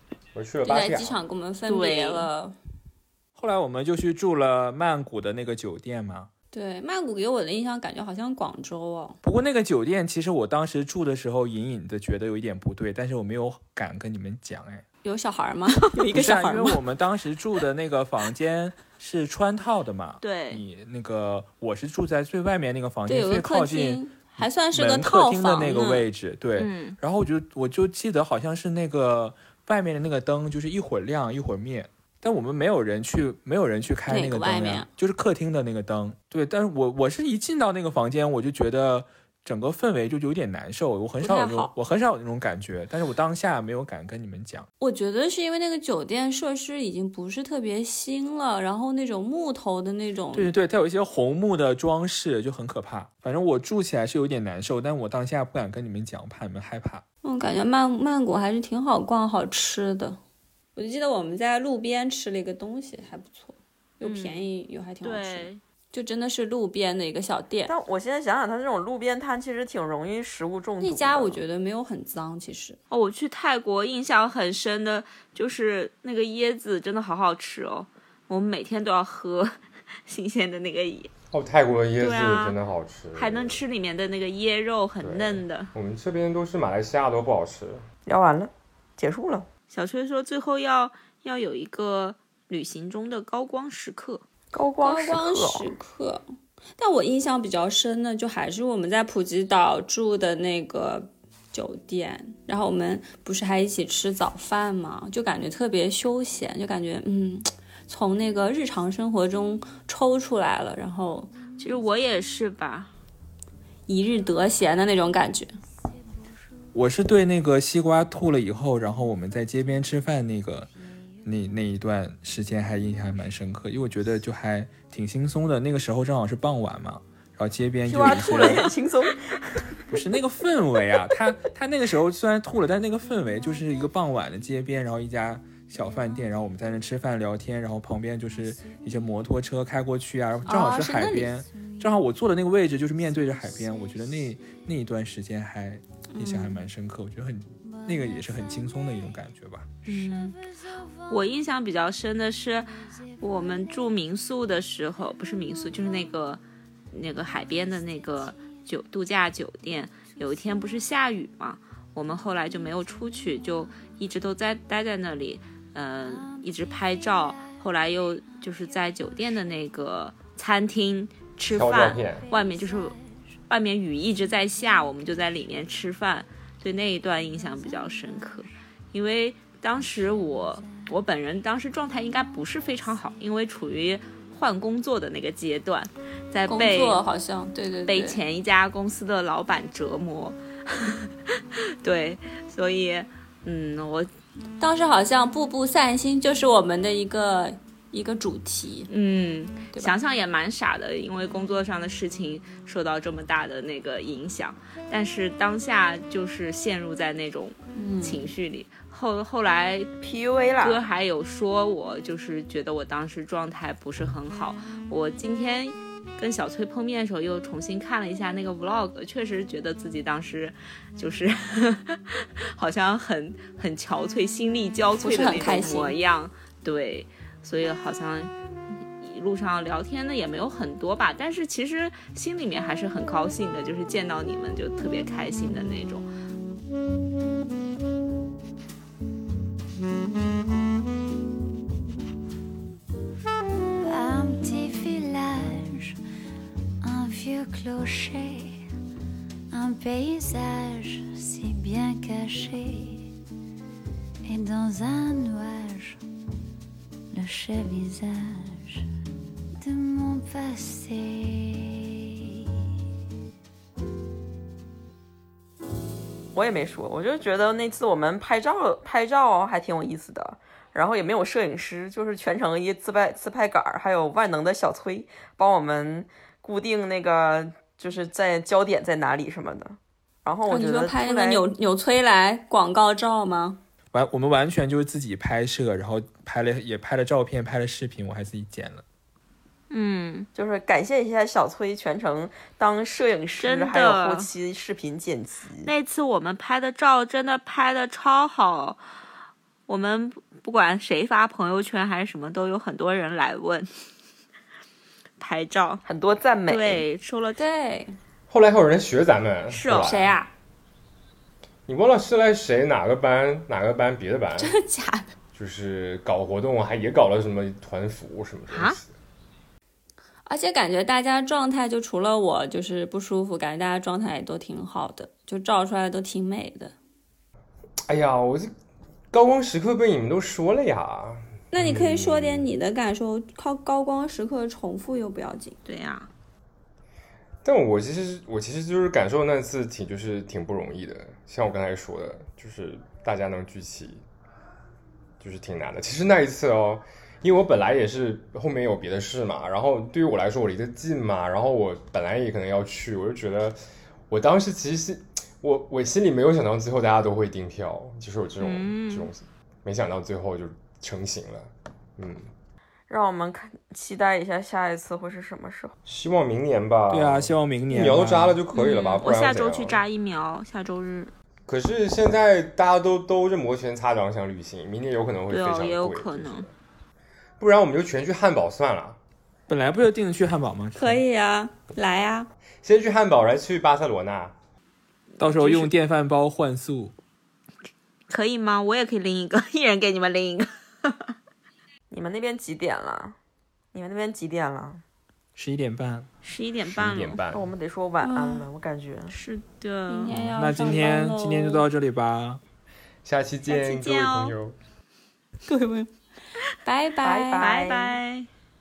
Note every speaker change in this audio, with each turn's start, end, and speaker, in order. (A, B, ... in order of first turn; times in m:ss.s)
0:00.4-0:01.2 A
0:00.6-0:02.6 B
0:01.7-0:02.3 C
0:03.4-0:06.3 D
0:06.5-0:09.2 B
0:09.2-0:14.8 D
0:15.0-0:16.8 B
0:16.1-0:44.7 D
0:20.2-0:20.6 C
0:23.1-0:26.1 B
0:26.6-0:27.0 C
0:34.1-0:34.9 B
0:41.2-0:41.7 B
0:44.8-0:50.5 B
0:50.3-0:57.0 D
0:57.2-1:00.2 B
1:00.8-1:07.7 B
1:04.0-1:04.4 C
1:05.0-1:05.6 C
1:07.7-1:11.4 E
1:10.8-1:12.8 B
1:12.9-1:19.5 C
1:20.1-1:21.1 C
1:21.3-1:23.6 A
1:22.0-1:22.6 C
1:23.2-1:25.7 C
1:25.0-1:27.8 A
1:28.1-1:29.5 E
1:29.7-1:34.2 C
1:34.5-1:35.8 E
1:34.8-1:36.2 B
1:36.8-1:51.3 B
1:51.6-1:52.9 C
1:53.9-1:55.5 B
1:56.7-2:00.7 D
2:01.2-2:08.7 D
2:07.9-2:09.7 E
2:09.9-2:29.7 D
2:20.5-2:21.3 B
2:26.1-2:26.6 B
2:29.8-2:30.4 C
2:31.1-2:32.7 C
2:33.2-2:53.0 C
2:51.5-2:52.3 A
2:53.5-3:07.0 C
3:06.5-3:08.2 B
3:07.9-3:14.1 C
3:14.6-3:18.9 B
3:18.9-3:29.9 C
3:27.8-3:28.3 B
3:30.0-3:30.8 E
3:30.6-3:56.1 C
3:45.0-3:46.0 B
4:03.8-4:06.0 F
4:06.8-4:08.6 F
4:09.5-4:13.1 F
4:14.2-4:16.0 F
4:17.1-4:18.8 F
4:19.6-4:21.9 F
4:26.3-4:41.4 E
4:40.5-4:43.6 B
4:43.9-4:48.8 D
4:49.7-4:50.3 C
4:50.4-4:55.7 E
4:53.4-4:54.3 C
4:55.6-4:58.8 C
4:59.7-5:03.7 C
5:05.2-5:05.8 C
5:05.8-5:06.8 E
5:06.5-5:07.4 C
5:07.4-5:08.0 B
5:08.3-5:10.2 A
5:09.5-5:10.0 E
5:09.8-5:10.3 B
5:11.7-5:14.6 A
5:14.4-5:15.1 B
5:15.3-5:18.9 A
5:18.5-5:18.8 C
5:20.3-5:26.8 B
5:27.9-5:28.5 A
5:29.1-5:32.5 A
5:31.5-5:35.6 B
5:35.7-5:36.1 C
5:37.4-5:44.0 A
5:45.2-5:53.6 A
5:54.1-6:02.3 A
5:58.4-5:59.1 C
6:02.9-6:05.8 E
6:05.9-6:09.8 A
6:06.9-6:08.4 D
6:08.5-6:11.1 C
6:11.5-6:16.5 A
6:15.3-6:16.5 C
6:17.4-6:19.0 A
6:19.5-6:21.0 D
6:20.8-6:22.3 B
6:22.6-6:24.3 A
6:25.2-6:27.0 D
6:25.2-6:25.7 C
6:28.1-6:31.1 C
6:31.9-6:33.2 E
6:33.7-6:34.8 E
6:35.4-6:36.1 D
6:36.2-6:37.2 C
6:36.7-6:37.5 A
6:37.3-6:39.1 E
6:38.0-6:38.5 B
6:39.1-6:40.2 C
6:39.9-6:41.7 B
6:40.1-6:42.4 D
6:43.0-6:44.6 A
6:43.5-6:44.4 C
6:45.5-6:45.9 B
6:46.6-6:47.5 B
6:47.0-6:48.0 E
6:47.4-6:48.3 C